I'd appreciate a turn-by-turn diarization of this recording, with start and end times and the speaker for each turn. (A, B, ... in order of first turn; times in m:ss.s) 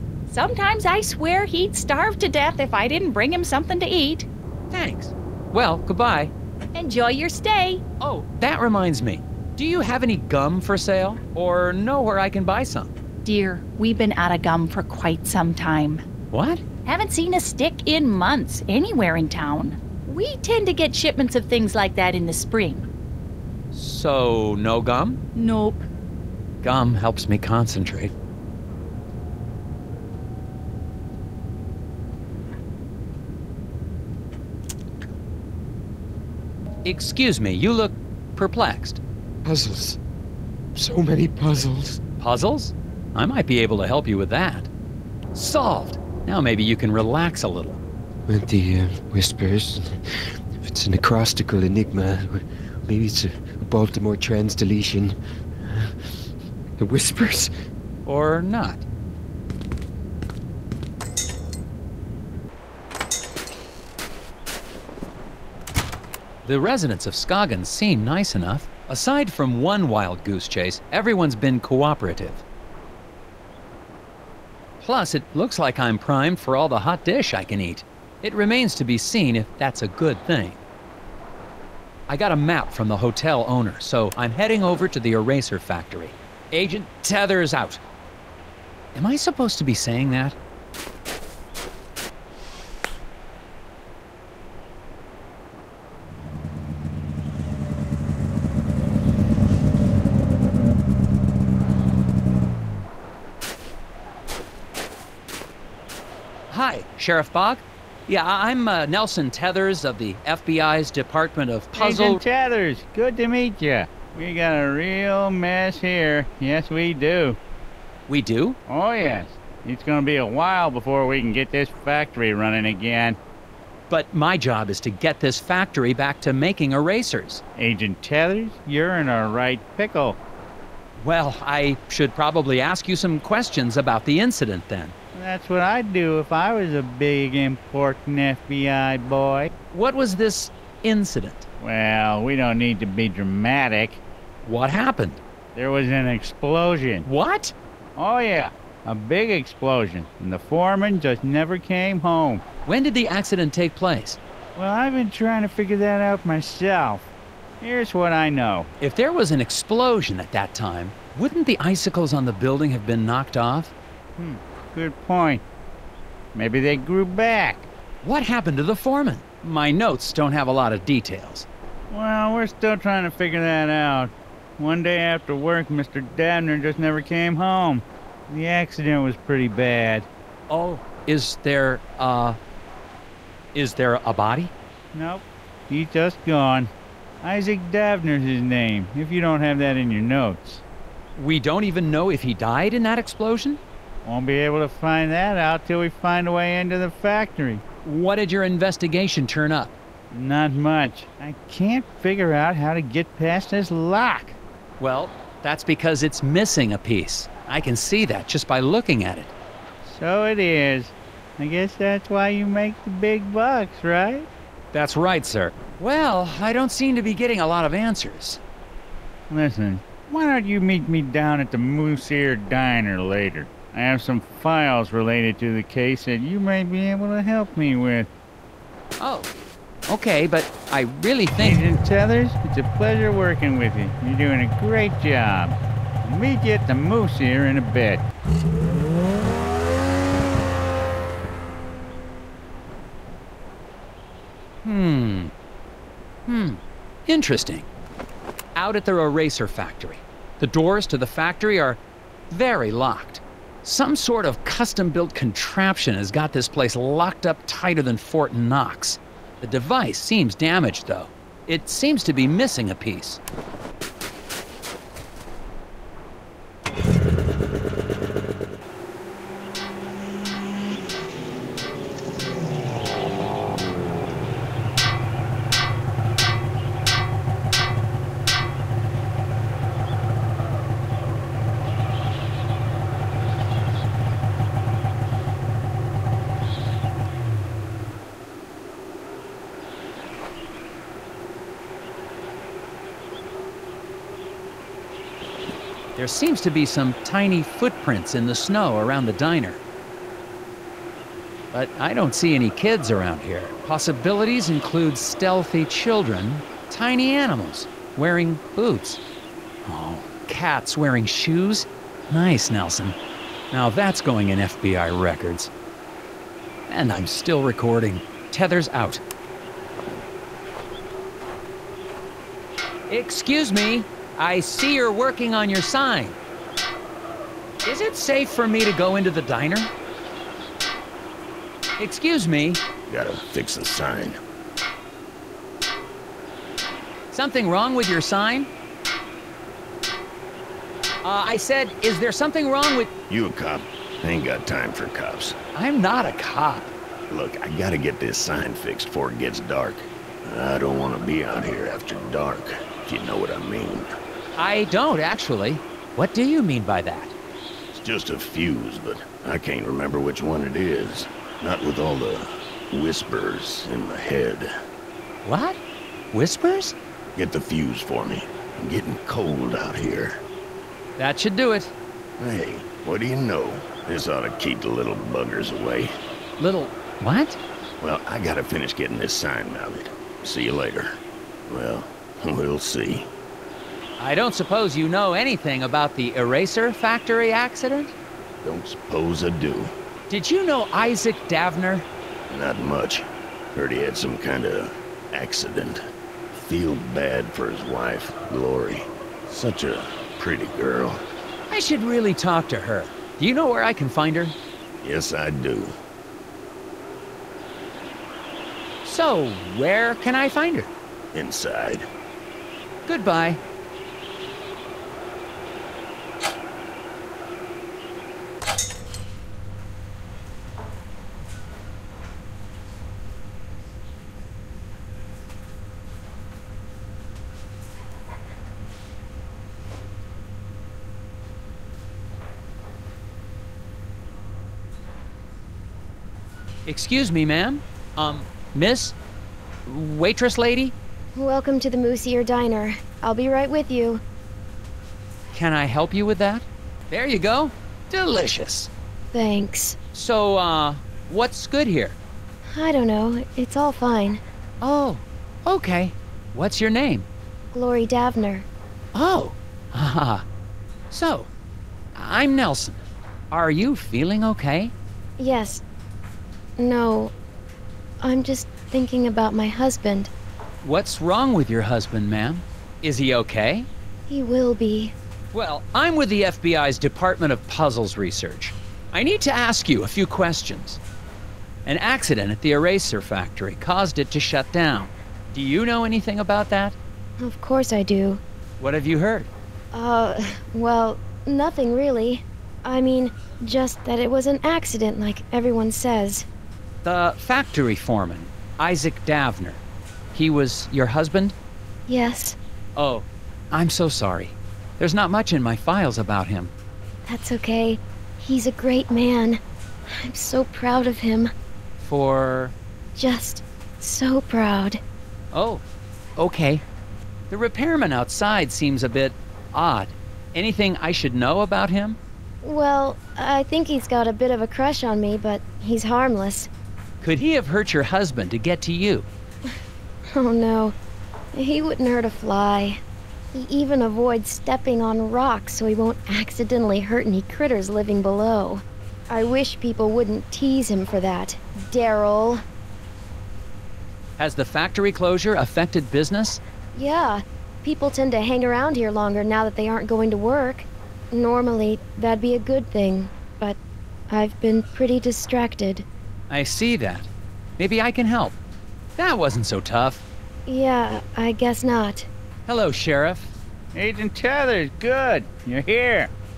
0:00.3-0:04.3 A
0:04.7-0:06.3 B
0:06.7-0:07.8 A
0:08.0-0:12.9 B
0:13.2-0:16.0 A
0:16.3-0:16.6 B
0:16.8-0:22.8 A
0:23.7-0:25.2 B
0:25.3-0:25.9 A
0:26.6-0:28.1 B
0:36.8-0:39.0 B
0:39.4-0:40.0 C
0:40.7-0:42.0 C
0:42.2-0:44.7 B
0:45.3-0:47.8 B
0:48.3-0:49.9 C
0:50.7-0:55.1 C
0:56.8-0:57.5 C
0:58.0-0:58.8 B
1:06.4-1:12.4 B
1:14.8-1:20.6 B
1:22.1-1:27.8 B
1:28.9-1:30.4 B
1:46.5-1:52.2 B
1:51.8-1:57.4 D
1:58.1-1:58.6 B
1:58.7-2:03.2 D
2:03.9-2:07.4 B
2:07.6-2:10.2 D
2:11.0-2:14.9 B
2:15.1-2:19.5 D
2:19.7-2:21.5 B
2:21.6-2:24.0 D
2:24.4-2:25.2 B
2:25.5-2:27.0 D
2:27.0-2:27.5 B
2:28.0-2:32.4 D
2:32.6-2:34.2 B
2:34.6-2:37.1 D
2:37.6-2:38.7 D
2:38.8-2:43.7 B
2:44.2-2:45.4 D
2:46.3-2:47.7 D
2:48.0-2:51.5 B
2:51.9-3:00.1 D
3:00.5-3:02.4 B
3:03.5-3:04.5 B
3:04.9-3:06.7 D
3:07.2-3:10.6 D
3:11.2-3:13.6 B
3:14.0-3:17.6 D
3:17.8-3:19.7 B
3:20.1-3:24.4 D
3:24.8-3:29.3 B
3:29.8-3:34.3 D
3:34.7-3:38.4 B
3:39.3-3:48.1 D
3:49.0-3:49.3 B
3:49.9-3:51.6 B
3:51.4-3:58.0 D
4:04.6-4:05.3 B
4:06.3-4:07.7 B
4:08.5-4:23.2 B
4:56.0-4:59.6 B
5:01.5-5:09.0 B
5:09.6-5:13.0 B
5:13.5-5:15.5 B
5:16.7-5:19.0 B
5:22.9-5:26.2 B
5:27.6-5:29.7 B
5:31.8-5:32.6 B
5:32.9-5:34.2 E
5:37.1-5:38.5 B
5:41.0-5:42.9 B
5:43.1-5:45.4 E
5:45.5-5:46.7 B
5:47.1-5:53.9 E
5:54.4-5:57.1 B
5:57.7-6:04.5 E
6:05.2-6:05.6 B
6:06.1-6:06.8 B
6:07.1-6:10.2 E
6:11.0-6:11.7 B
6:12.2-6:15.9 E
6:16.4-6:17.4 B
6:17.8-6:20.9 E
6:21.5-6:23.1 E
6:24.0-6:27.9 B
6:28.4-6:29.7 E
6:30.1-6:31.9 B
6:32.3-6:41.0 E
6:41.5-6:44.4 B
6:44.8-6:45.7 E
6:48.8-6:50.7 B
6:51.1-6:51.8 E
6:52.8-6:53.4 B
7:16.6-7:19.0 B
7:19.6-7:20.7 B
7:21.1-7:24.0 F
7:25.3-7:28.7 B
7:29.1-7:29.8 F
7:29.9-7:32.0 B
7:32.5-7:34.2 F
7:34.6-7:37.1 B
7:37.5-7:38.5 F
7:38.9-7:40.2 B
7:40.9-7:41.3 B
7:41.9-7:44.7 B
7:45.2-7:45.6 F
7:46.6-7:47.1 F
7:48.0-7:50.1 F
7:50.6-7:53.7 B
7:54.1-7:54.9 F
7:55.3-8:00.8 B
8:01.6-8:06.8 B
8:07.2-8:08.2 F
8:08.6-8:09.3 B
8:09.7-8:16.3 F
8:16.8-8:19.6 B
8:20.1-8:21.3 B
8:21.9-8:22.4 F
8:22.8-8:26.5 B
8:27.0-8:29.4 F
8:29.9-8:31.3 F
8:31.8-8:32.5 B
8:33.0-8:34.8 F
8:35.3-8:35.6 B
8:36.2-8:36.6 B
8:37.3-8:42.0 B
8:42.4-8:46.5 F
8:47.0-8:49.1 B
8:50.1-8:50.8 F
8:51.3-8:52.8 F
8:53.3-9:02.4 F
9:04.2-9:06.4 B
9:06.7-9:13.6 F
9:14.1-9:15.8 F
9:16.3-9:18.4 B
9:19.0-9:20.0 B
9:20.4-9:22.1 F
9:22.4-9:23.3 B
9:23.7-9:26.1 D